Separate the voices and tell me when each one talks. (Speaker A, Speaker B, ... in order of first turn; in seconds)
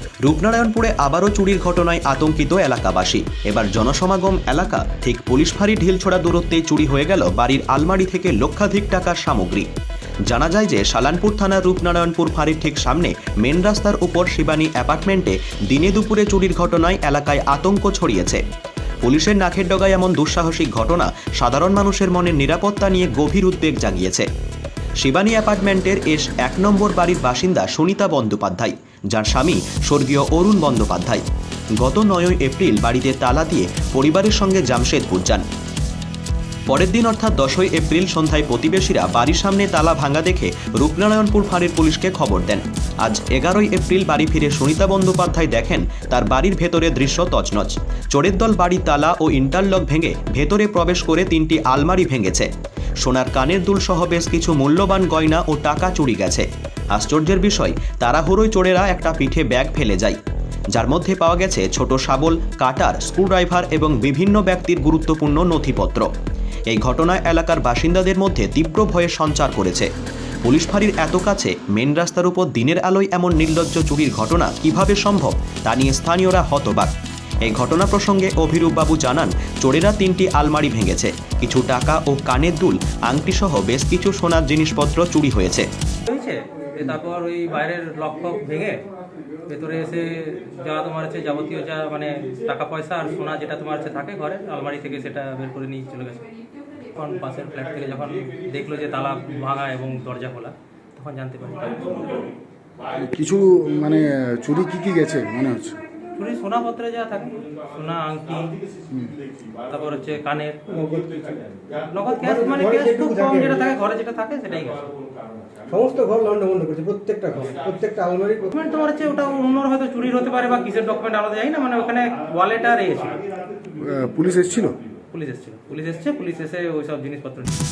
Speaker A: 0.2-9.7, 10.3-18.4, 19.0-24.3, 25.0-31.2, 31.8-35.4, 36.7-52.5, 53.0-60.2, 60.7-66.1, 66.7-69.9, 70.4-85.7
Speaker B: 86.0-102.3, 106.2-108.6, 109.6-110.7, 111.8-114.9, 118.5-123.2, 125.1-127.6
Speaker C: 102.9-105.8, 123.7-124.8
Speaker D: 110.7-111.4, 112.1-113.6, 115.7-118.5